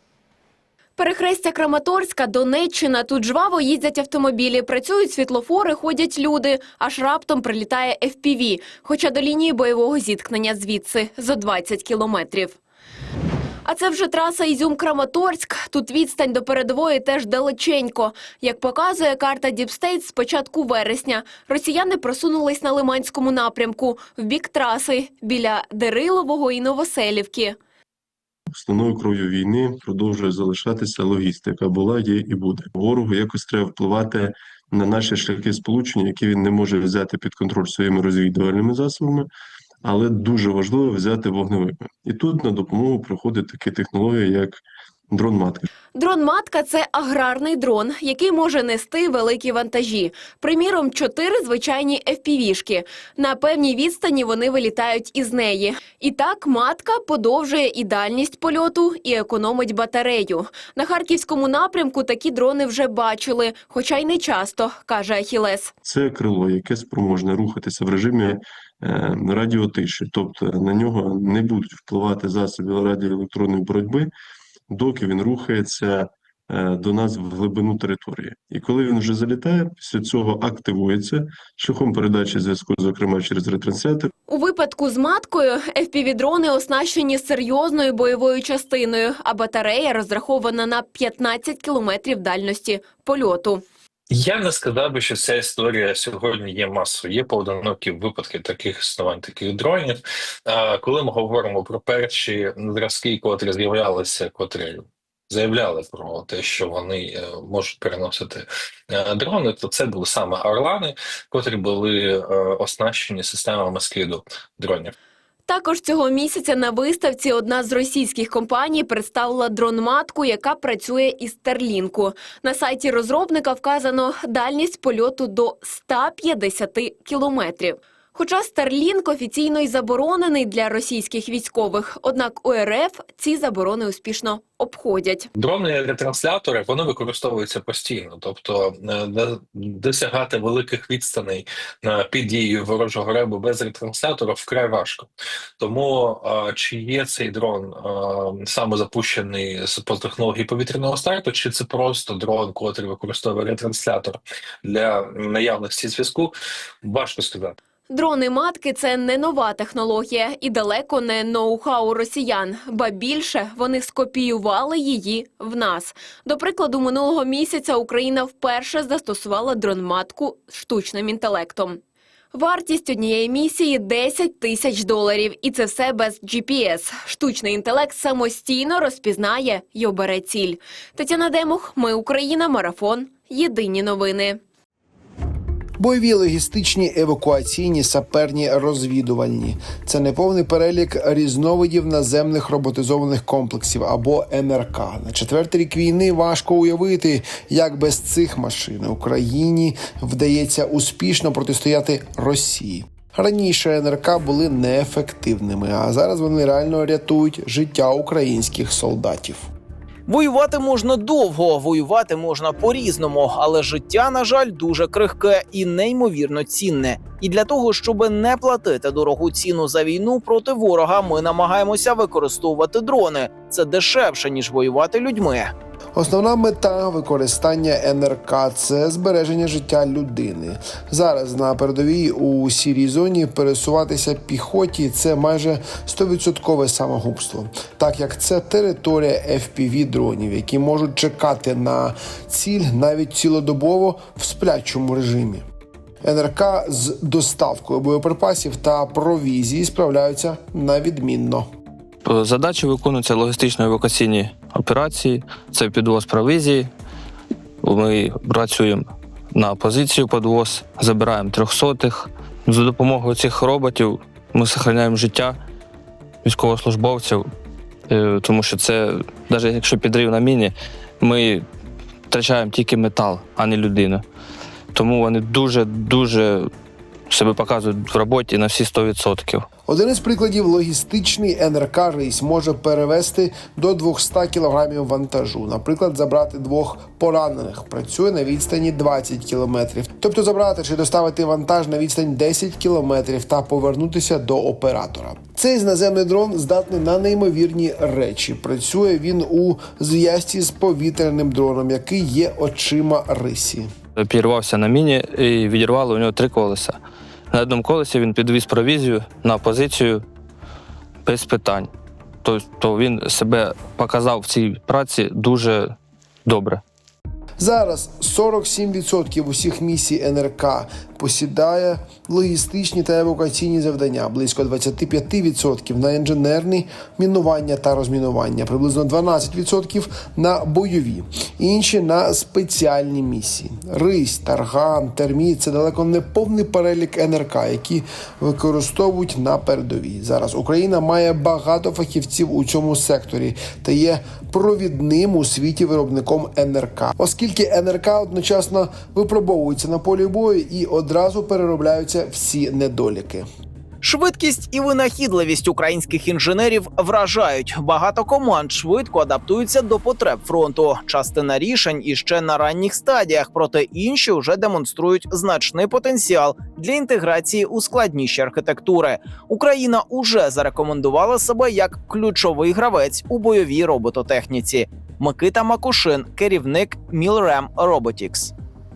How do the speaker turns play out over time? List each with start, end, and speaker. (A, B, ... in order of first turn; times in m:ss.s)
0:01.0-0:12.6 A
0:13.6-0:27.6 A
0:28.5-0:39.3 B
0:39.8-0:45.7 B
0:45.9-1:05.7 A
1:05.8-1:14.1 B
1:14.7-1:24.1 B
1:24.3-1:33.6 A
1:34.1-1:54.9 C
1:55.5-2:15.3 A
2:15.4-2:37.6 C
2:37.9-2:51.8 A
2:52.3-3:04.4 A
3:05.8-3:29.4 D
3:30.1-3:45.5 E
3:45.9-4:05.4 D
4:06.0-4:11.4 D
4:12.0-4:16.7 F
4:17.6-4:25.4 F
4:26.2-4:27.3 F
4:27.9-4:31.4 F
4:32.1-4:34.0 F
4:34.7-4:36.5 F
4:37.1-4:39.4 F
4:39.6-5:03.7 D
5:04.0-5:06.8 F
5:07.3-5:10.0 F
5:11.0-5:11.7 F
5:12.2-5:15.7 F
5:16.2-5:16.6 F
5:17.4-5:53.2 D
5:53.8-6:18.3 E